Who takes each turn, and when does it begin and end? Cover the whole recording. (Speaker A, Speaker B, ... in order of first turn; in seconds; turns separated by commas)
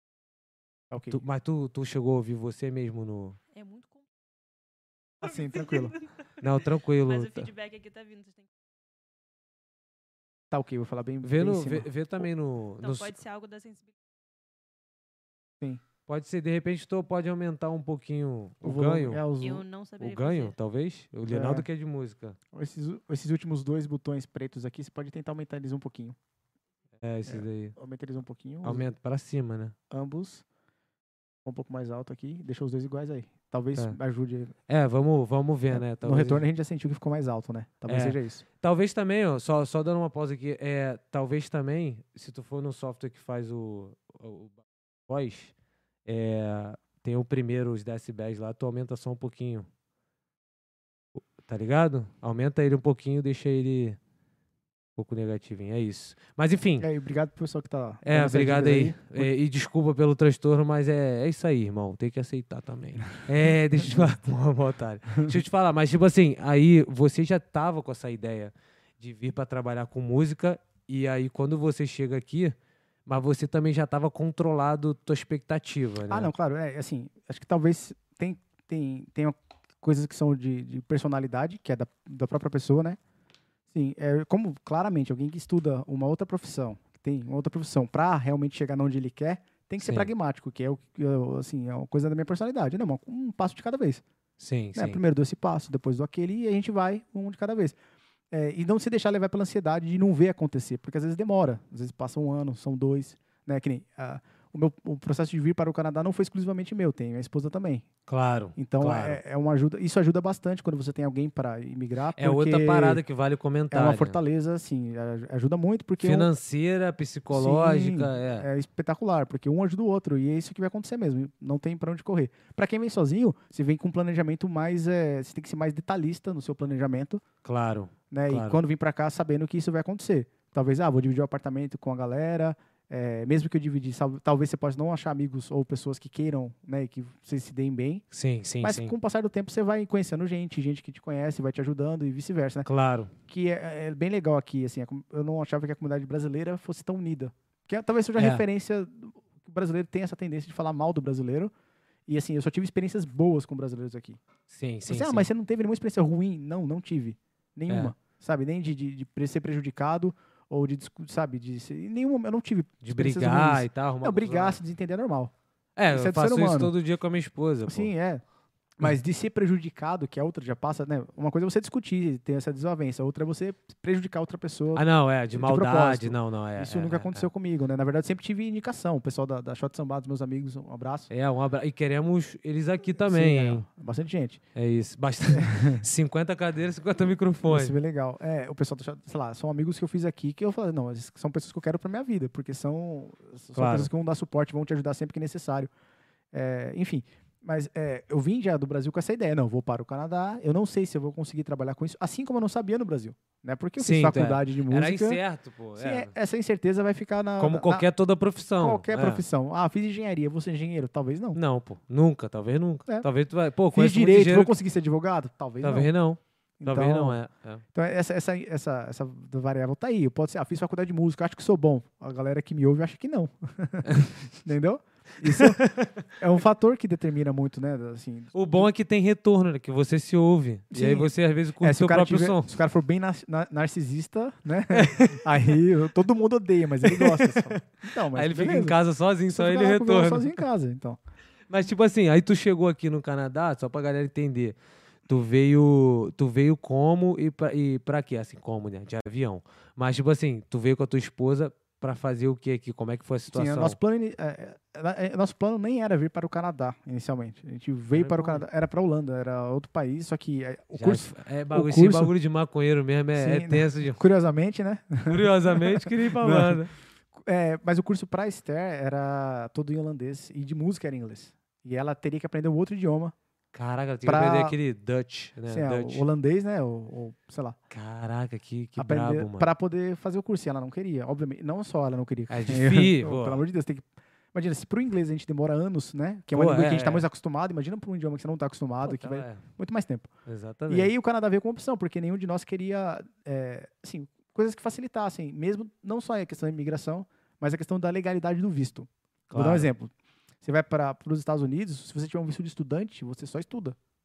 Speaker A: 0.9-1.2, Speaker B: 1.1-3.4, Speaker C: 3.5-4.0, Speaker A: 5.2-6.0, Speaker C: 5.2-8.5, Speaker B: 6.4-7.5, Speaker A: 10.5-12.3, Speaker B: 11.2-13.2, Speaker C: 12.8-13.9, Speaker B: 16.1-19.2, Speaker A: 18.6-19.6, Speaker C: 19.4-20.6, Speaker B: 20.0-22.4, Speaker A: 21.3-21.7, Speaker A: 22.5-26.2, Speaker B: 27.0-27.8, Speaker A: 27.3-28.9, Speaker B: 28.6-29.8, Speaker A: 29.9-30.4, Speaker A: 31.4-34.5, Speaker B: 34.7-36.4, Speaker A: 35.7-38.4, Speaker B: 37.9-45.5, Speaker B: 46.1-49.7, Speaker B: 51.1-54.0, Speaker B: 55.0-56.9, Speaker A: 56.8-59.3, Speaker B: 58.0-72.5, Speaker A: 63.8-64.1, Speaker A: 65.1-65.4, Speaker B: 73.1-76.3, Speaker A: 76.1-83.0, Speaker A: 83.7-94.0, Speaker B: 89.8-90.1, Speaker B: 94.4-95.0, Speaker A: 94.8-97.8, Speaker A: 98.3-107.9, Speaker B: 108.1-109.2, Speaker A: 108.6-113.0, Speaker B: 112.2-114.2, Speaker A: 113.7-116.3, Speaker B: 116.0-118.5, Speaker A: 117.3-127.2, Speaker B: 127.4-128.6, Speaker A: 128.1-138.1, Speaker B: 138.1-138.9, Speaker A: 138.6-142.7, Speaker B: 142.7-143.1, Speaker A: 143.3-151.5, Speaker B: 148.2-148.4, Speaker A: 152.1-154.2, Speaker B: 154.5-155.3, Speaker A: 154.9-165.3, Speaker B: 157.7-157.9, Speaker B: 162.8-164.6, Speaker B: 165.8-167.9, Speaker A: 165.9-166.7, Speaker A: 167.7-168.2, Speaker A: 168.8-181.1, Speaker B: 174.8-177.3, Speaker B: 181.1-183.7, Speaker A: 183.1-184.4, Speaker B: 184.6-187.8, Speaker A: 185.3-185.8, Speaker A: 187.5-195.7, Speaker B: 193.6-193.9, Speaker A: 196.3-205.2, Speaker B: 203.8-206.1, Speaker A: 205.8-207.9, Speaker B: 207.4-209.2, Speaker A: 208.6-211.4, Speaker B: 211.3-214.5, Speaker A: 213.7-215.9, Speaker B: 215.6-217.6, Speaker A: 216.6-217.2, Speaker A: 217.7-228.7, Speaker B: 223.8-224.2, Speaker B: 225.2-226.1, Speaker B: 228.3-232.5, Speaker A: 230.7-241.0, Speaker B: 234.7-235.2, Speaker B: 236.8-240.4, Speaker B: 241.5-244.6, Speaker B: 245.1-253.8, Speaker A: 253.3-262.1, Speaker B: 257.9-258.4, Speaker B: 260.7-264.0, Speaker A: 263.1-266.6, Speaker B: 265.1-266.7, Speaker A: 267.1-273.1, Speaker B: 273.5-276.1, Speaker A: 274.1-274.6, Speaker A: 275.5-277.6, Speaker B: 277.7-279.5, Speaker A: 278.8-290.1, Speaker B: 282.3-283.4, Speaker B: 286.3-287.1, Speaker B: 288.8-289.4, Speaker B: 290.3-290.9, Speaker A: 290.7-303.8, Speaker B: 299.3-299.7